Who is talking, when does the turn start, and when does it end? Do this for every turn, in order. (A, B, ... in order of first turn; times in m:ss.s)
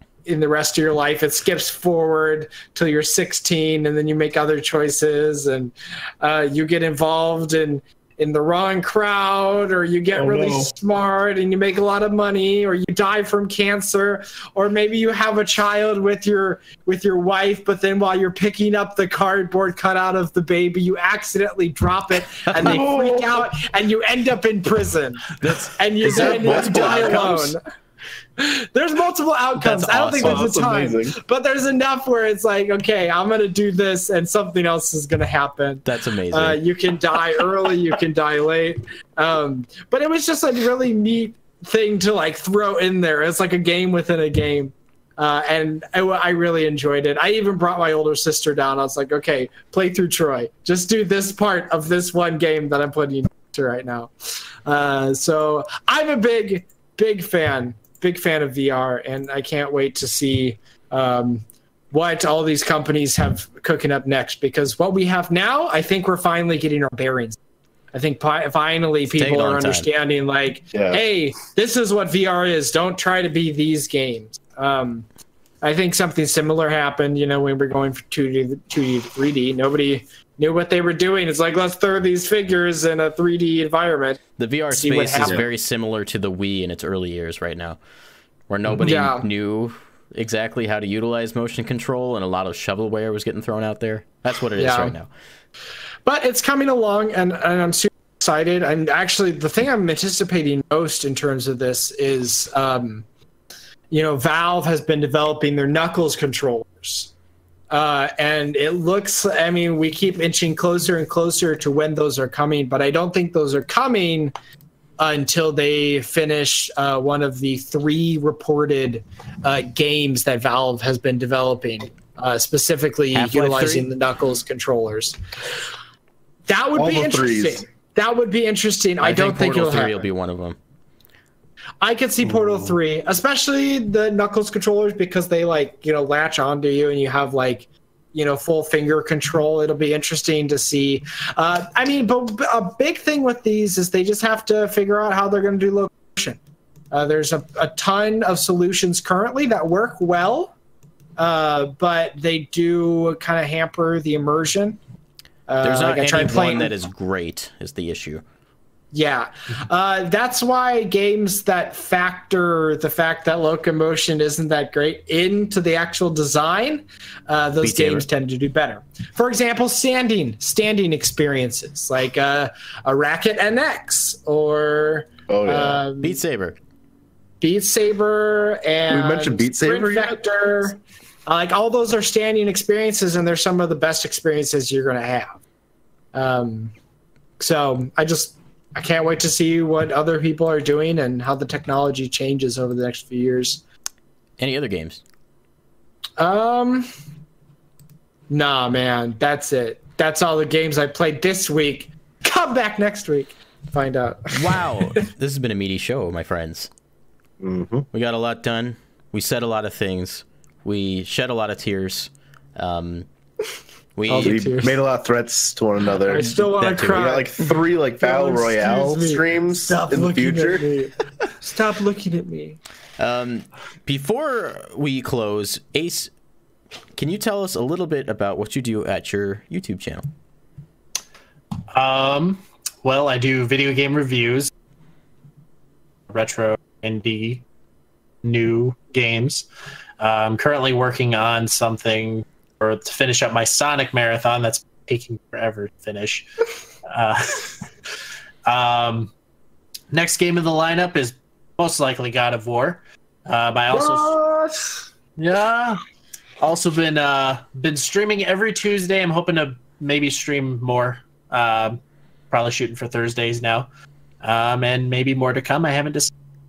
0:00.2-0:27.6 A
0:10.1-0:10.7 B
0:22.5-0:22.8 C
0:22.5-0:23.4 B
0:25.4-0:27.5 C
0:26.0-0:27.3 B
0:28.4-0:54.1 A
0:29.6-0:30.5 C
0:30.2-0:31.2 B
0:35.8-0:36.6 C
0:54.6-1:07.4 A
1:07.9-1:15.0 A
1:09.1-1:09.9 C
1:10.7-1:11.0 B
1:15.6-1:25.4 A
1:24.4-1:27.8 C
1:28.5-1:35.1 C
1:28.7-1:29.3 A
1:34.6-1:34.9 A
1:36.0-1:43.0 A
1:43.9-1:47.1 A
1:47.7-1:54.3 A
1:55.0-2:05.2 A
2:03.1-2:03.9 C
2:06.5-2:10.1 A
2:06.7-2:07.6 B
2:09.0-2:10.6 C
2:11.8-2:26.4 A
2:12.2-2:12.8 B
2:26.9-2:30.5 A
2:31.2-2:34.8 A
2:35.5-2:36.7 A
2:35.6-2:38.2 C
2:38.9-2:56.2 A
2:47.6-2:48.0 C
2:55.3-2:55.8 B
2:56.0-2:56.6 C
2:57.4-3:05.4 A
2:58.9-3:00.2 B
3:06.1-3:06.7 A
3:07.4-3:13.6 A
3:14.4-3:15.0 C
3:16.2-3:16.9 A
3:18.3-3:25.0 A
3:24.3-3:26.7 C
3:27.4-3:27.9 B
3:27.9-3:33.1 C
3:34.0-3:34.4 C
3:34.1-3:34.7 A
3:34.2-3:40.6 B
3:36.0-3:42.6 A
3:36.1-3:37.1 C
3:43.0-3:46.1 C
3:46.9-3:50.0 C
3:51.7-3:54.5 D
3:56.1-3:57.4 D
3:58.2-3:59.4 D
4:00.0-4:06.3 D
4:06.8-4:07.6 D
4:08.4-4:09.1 D
4:09.9-4:14.1 D
4:13.7-4:14.8 A
4:15.2-4:15.8 D
4:16.4-4:23.7 D
4:24.2-4:26.1 D